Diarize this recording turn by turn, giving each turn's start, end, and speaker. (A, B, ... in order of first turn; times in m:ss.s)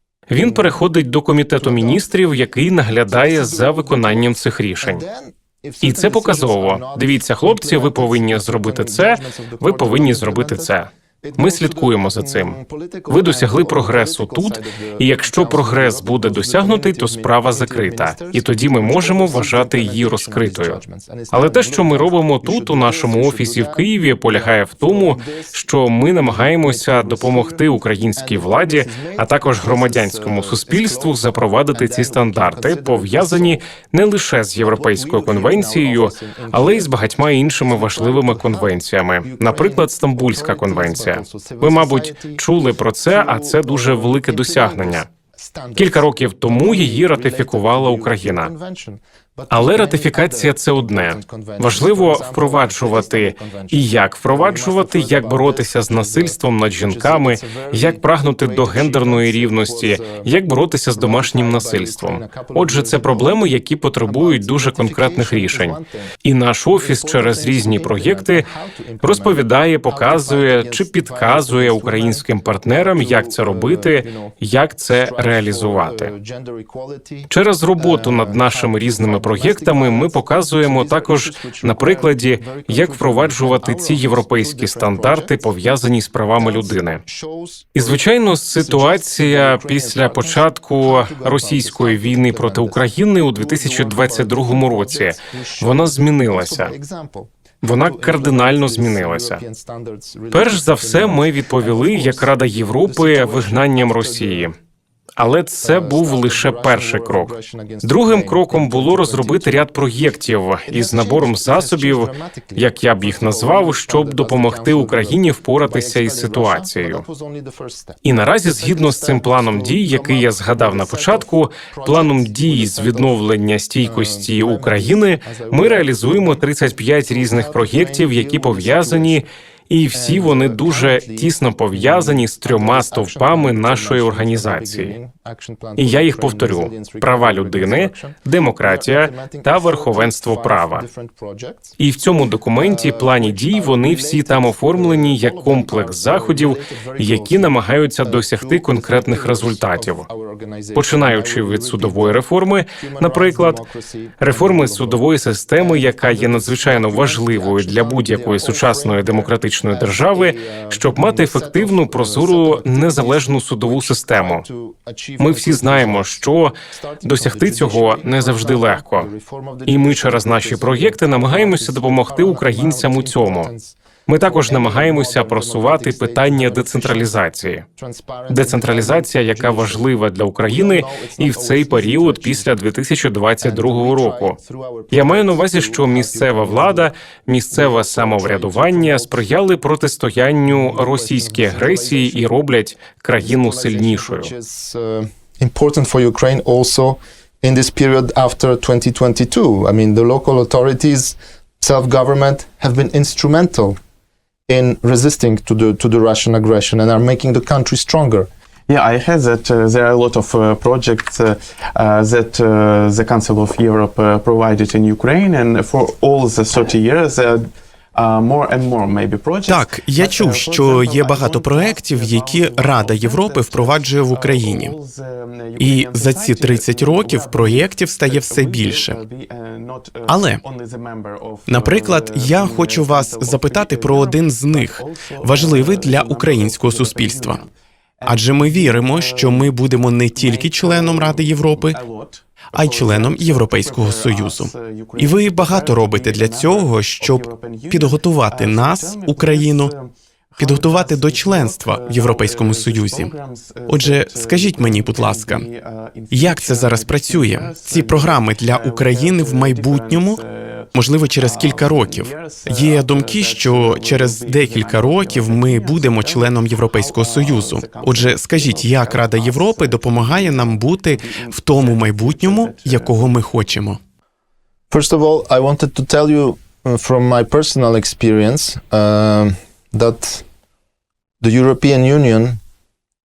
0:00.3-0:05.0 A
0:00.4-0:00.8 B
0:01.6-0:33.6 B
0:05.8-0:10.9 A
0:11.4-0:12.6 A
0:13.1-0:20.8 A
0:21.3-0:45.1 A
0:34.6-0:42.5 B
0:43.0-1:00.4 B
0:45.8-0:48.5 A
0:49.5-1:08.4 A
1:00.9-1:03.5 B
1:04.0-1:06.1 B
1:06.7-1:14.4 B
1:09.0-1:16.1 A
1:14.9-1:25.7 B
1:17.3-1:27.0 A
1:26.4-1:44.5 B
1:27.8-1:36.7 A
1:37.6-1:39.4 A
1:40.3-1:44.5 A
1:45.2-1:57.0 A
1:45.6-1:49.7 B
1:50.7-2:03.2 B
1:58.0-2:15.0 A
2:03.8-2:09.2 B
2:09.9-2:21.8 B
2:15.8-2:20.9 A
2:21.8-2:30.0 A
2:22.6-2:35.0 B
2:30.8-2:33.6 A
2:34.2-2:44.4 A
2:35.6-2:59.9 B
2:45.2-2:49.1 A
2:49.7-2:53.5 A
2:54.1-2:57.6 A
2:58.3-3:04.4 A
3:00.4-3:02.6 B
3:03.4-3:06.9 B
3:04.9-3:14.3 A
3:07.5-3:09.4 B
3:10.4-3:12.4 B
3:13.2-3:23.8 B
3:24.5-3:28.3 B
3:28.7-3:59.6 C
3:39.5-3:44.7 D
3:45.6-3:49.0 D
3:50.1-3:50.4 D
3:51.5-3:57.4 D
3:58.1-4:01.8 D
4:00.2-4:33.1 C
4:02.5-4:09.7 D
4:10.4-4:13.1 D
4:13.7-4:15.5 D
4:16.1-4:20.2 D
4:20.8-4:33.8 D
4:34.7-4:40.2 B
4:41.2-4:42.4 B